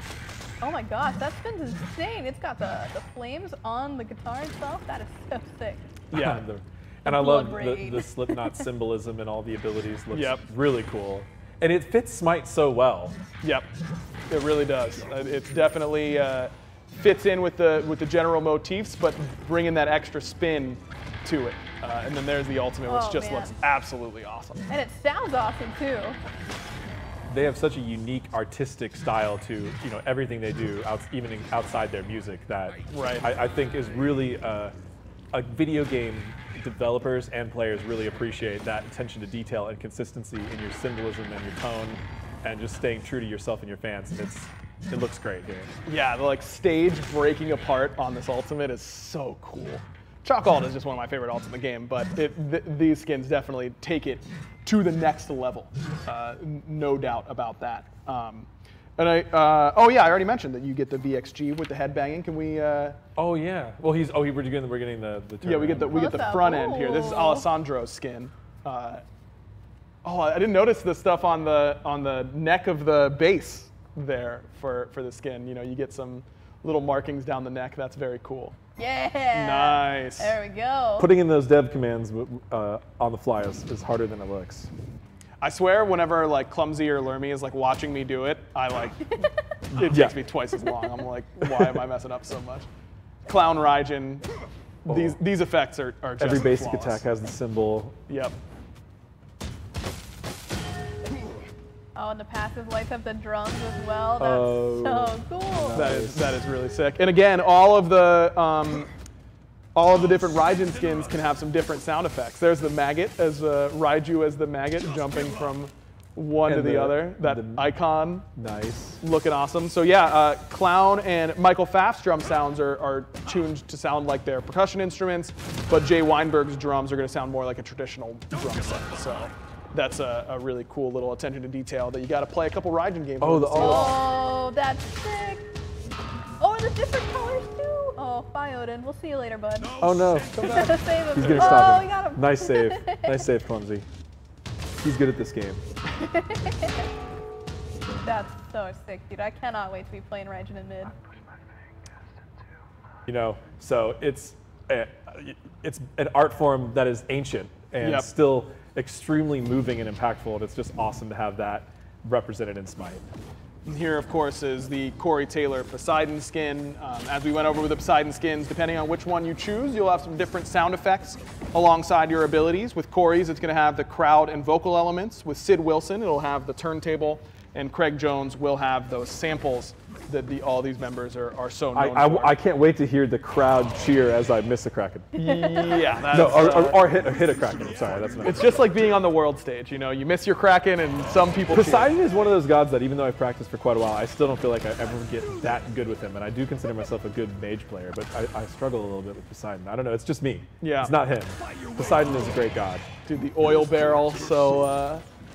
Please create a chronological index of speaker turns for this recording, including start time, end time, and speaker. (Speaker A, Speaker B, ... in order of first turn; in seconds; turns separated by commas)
Speaker A: 0.6-5.9, Speaker B: 6.1-6.4, Speaker C: 6.1-13.2, Speaker A: 7.1-8.7, Speaker B: 10.1-10.4, Speaker B: 13.4-13.7, Speaker B: 14.3-24.7, Speaker A: 22.9-23.6, Speaker A: 24.7-26.2, Speaker C: 27.3-34.7, Speaker B: 32.9-33.3, Speaker C: 35.3-45.7, Speaker B: 45.9-63.0, Speaker C: 63.2-66.0, Speaker B: 65.4-69.0, Speaker A: 65.8-67.5, Speaker B: 70.0-78.6, Speaker A: 78.8-81.1, Speaker B: 79.3-80.3, Speaker C: 81.0-84.7, Speaker B: 85.4-92.7, Speaker C: 89.8-90.2, Speaker C: 91.4-91.8, Speaker B: 93.2-94.3, Speaker B: 94.8-97.0, Speaker C: 94.9-95.2, Speaker C: 96.2-98.0, Speaker B: 98.1-98.4, Speaker A: 102.0-106.0, Speaker C: 104.2-106.4, Speaker B: 105.8-108.9, Speaker B: 109.8-118.3, Speaker C: 116.5-117.8, Speaker C: 118.3-119.0, Speaker B: 119.0-134.0, Speaker C: 133.2-134.0, Speaker A: 133.6-135.4, Speaker A: 136.4-139.8, Speaker C: 139.8-143.9, Speaker A: 140.4-143.2, Speaker B: 141.2-141.8, Speaker C: 144.8-145.6, Speaker A: 146.0-146.8, Speaker A: 148.0-150.9, Speaker C: 153.1-163.0, Speaker B: 157.8-158.1, Speaker B: 163.7-182.4, Speaker C: 181.7-188.6, Speaker B: 185.2-186.9, Speaker B: 188.2-191.9, Speaker C: 191.5-202.9, Speaker B: 200.6-200.9, Speaker B: 203.1-205.1